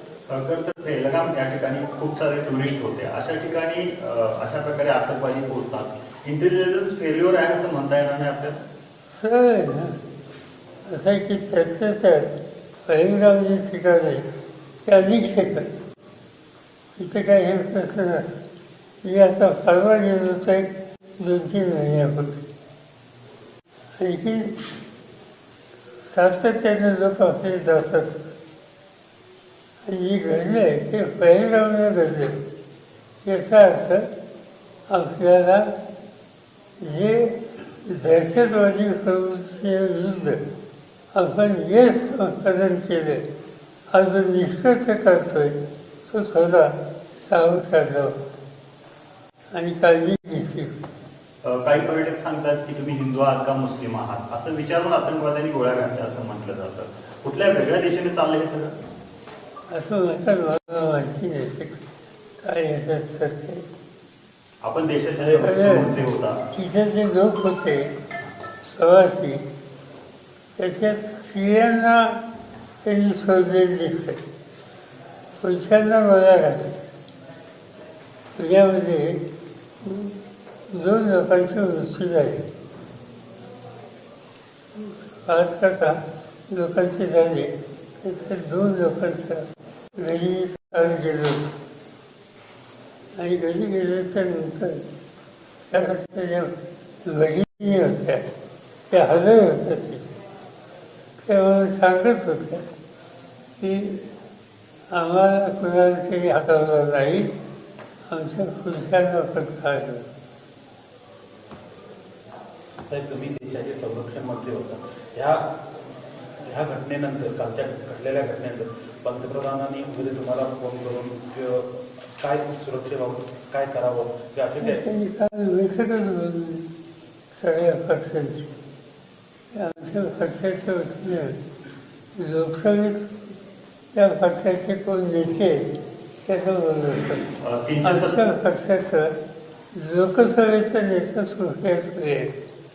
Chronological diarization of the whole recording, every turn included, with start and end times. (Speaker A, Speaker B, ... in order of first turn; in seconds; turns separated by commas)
Speaker A: 0.3-8.6, Speaker B: 9.1-10.0, Speaker B: 10.9-12.3, Speaker B: 12.9-14.2, Speaker B: 14.9-15.7, Speaker B: 16.9-18.4, Speaker B: 19.0-20.7, Speaker B: 21.2-22.4, Speaker B: 24.0-24.6, Speaker B: 25.9-28.3, Speaker B: 29.9-32.4, Speaker B: 33.2-34.1, Speaker B: 34.9-35.7, Speaker B: 36.8-40.4, Speaker B: 41.1-43.2, Speaker B: 43.9-48.1, Speaker B: 49.5-50.7, Speaker A: 51.5-58.7, Speaker B: 59.7-61.8, Speaker B: 62.4-63.6, Speaker A: 64.6-66.4, Speaker B: 65.3-65.9, Speaker B: 66.5-67.9, Speaker B: 68.8-69.4, Speaker B: 70.5-72.2, Speaker B: 72.8-74.2, Speaker B: 75.4-76.8, Speaker B: 78.4-79.2, Speaker B: 79.8-80.2, Speaker B: 80.7-82.5, Speaker B: 84.8-86.0, Speaker B: 86.5-87.5, Speaker B: 88.0-89.5, Speaker B: 90.0-91.5, Speaker B: 93.2-94.8, Speaker B: 95.7-96.5, Speaker B: 97.0-98.2, Speaker B: 98.9-100.2, Speaker B: 101.2-102.6, Speaker B: 103.6-104.0, Speaker B: 104.9-107.3, Speaker B: 108.1-110.1, Speaker C: 112.9-115.5, Speaker C: 116.4-121.7, Speaker C: 122.2-124.8, Speaker B: 124.6-126.7, Speaker B: 127.3-128.5, Speaker B: 129.5-131.4, Speaker B: 132.2-133.1, Speaker B: 133.9-135.7, Speaker B: 136.2-137.3, Speaker A: 137.4-138.2, Speaker B: 137.8-139.1, Speaker B: 139.8-142.3